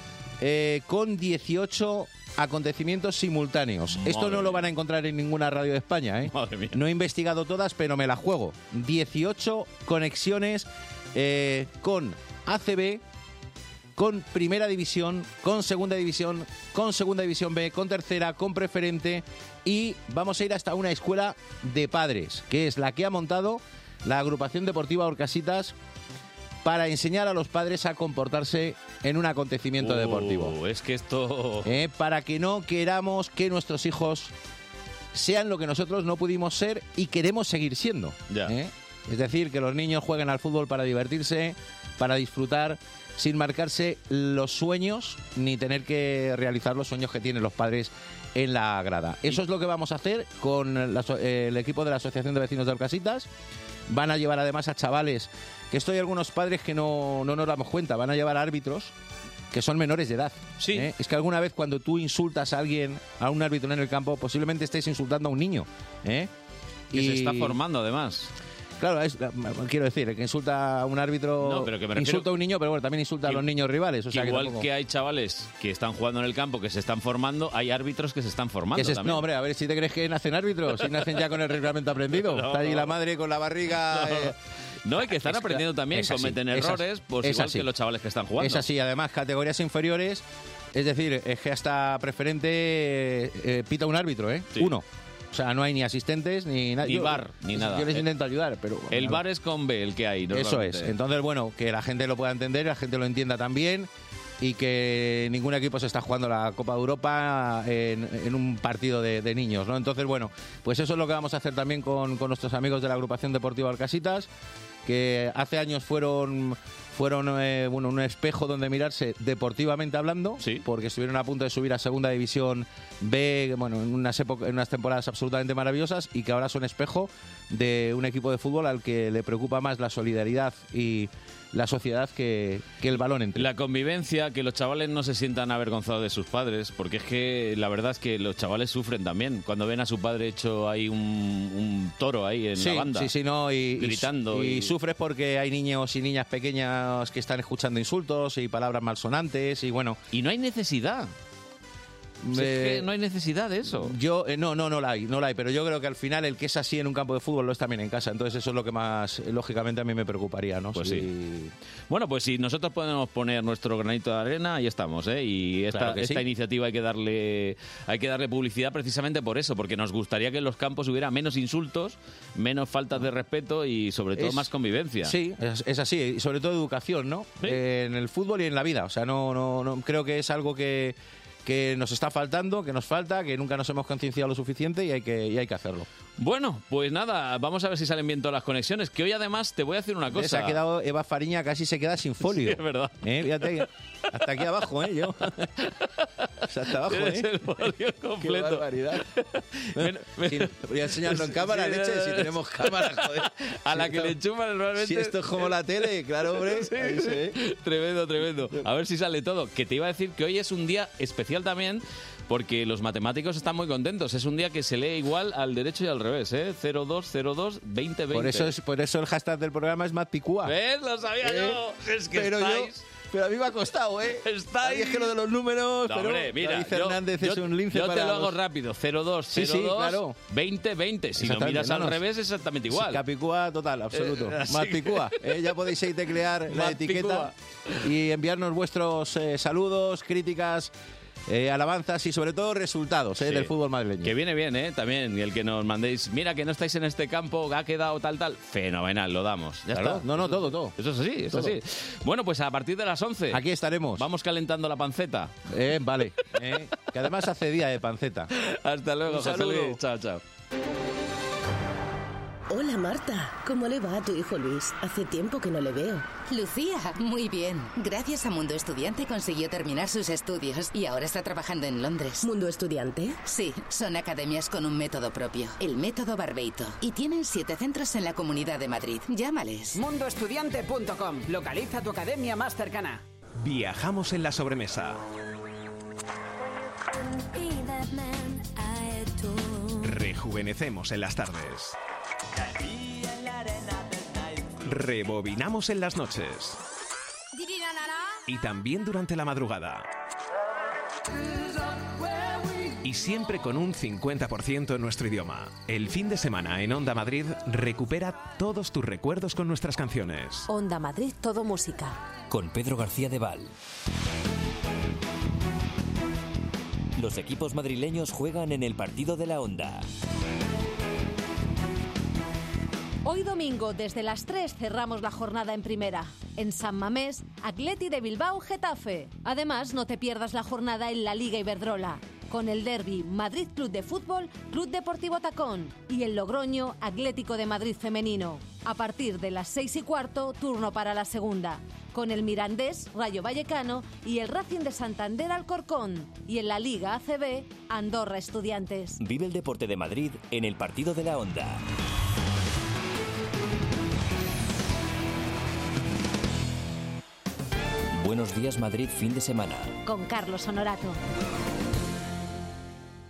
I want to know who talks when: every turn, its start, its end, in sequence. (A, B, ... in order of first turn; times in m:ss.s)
0:00.4-0:13.0 A
0:03.9-0:04.7 B
0:06.2-0:06.8 B
0:14.0-0:25.7 A
0:26.6-0:30.5 A
0:29.8-0:31.7 B
0:31.6-0:34.3 A
0:35.1-0:53.3 A
0:53.9-0:58.9 A
0:59.5-1:06.3 A
1:00.6-1:00.9 B
1:06.9-1:07.6 A
1:06.9-1:08.3 B
1:08.8-1:14.7 A
1:11.4-1:12.3 B
1:14.1-1:19.2 B
1:18.7-1:24.3 A
1:22.1-1:22.9 B
1:23.9-1:24.3 B
1:24.8-1:28.6 B
1:25.1-1:27.7 A
1:28.4-1:39.2 A
1:36.8-1:38.0 B
1:38.9-1:40.9 B
1:40.3-1:43.9 A
1:44.4-1:54.3 A
1:54.8-2:13.5 A
2:13.3-2:23.1 B
2:22.6-2:30.0 A
2:23.8-2:24.7 B
2:30.1-2:31.1 B
2:32.2-2:32.9 A
2:32.3-2:33.9 B
2:33.6-2:41.5 A
2:40.7-2:41.1 B
2:41.9-2:55.1 B
2:45.7-2:46.2 A
2:54.2-2:54.5 A
2:55.0-3:05.9 A
3:06.2-3:10.6 B
3:10.1-3:15.4 A
3:12.2-3:13.6 B
3:16.5-3:17.3 A
3:16.8-3:25.6 B
3:18.2-3:19.0 A
3:19.8-3:24.1 A
3:24.8-3:27.4 A
3:26.3-3:38.5 B
3:38.1-3:40.5 A
3:40.4-3:42.8 B
3:41.2-3:41.6 A
3:42.1-3:48.4 A
3:44.1-3:45.1 B
3:45.8-3:53.0 B
3:49.3-3:50.2 A
3:51.2-3:52.0 A
3:52.7-3:57.3 A
3:53.9-3:55.1 B
3:56.5-3:57.3 B
3:57.8-4:00.7 A
4:01.3-4:04.1 A
4:03.2-4:03.5 B
4:04.0-4:13.4 B
4:09.7-4:10.7 A
4:11.3-4:11.6 A
4:13.3-4:14.0 A
4:14.0-4:15.4 B
4:15.5-4:18.3 A
4:18.4-4:20.2 B
4:19.1-4:19.8 A
4:22.5-4:26.1 C
4:26.2-4:32.3 D
4:32.2-4:33.2 C
4:33.2-4:39.8 D
4:39.7-4:43.0 E
4:43.4-4:45.0 F
4:49.8-4:51.8 F
4:54.6-4:56.6 F
4:58.3-4:59.9 F
5:02.8-5:10.5 F
5:10.5-5:11.9 G
5:12.3-5:13.5 H
5:17.0-5:19.9 H
5:23.0-5:49.0 G
5:49.0-5:51.6 H
5:57.9-5:59.8 H
5:59.8-6:01.0 G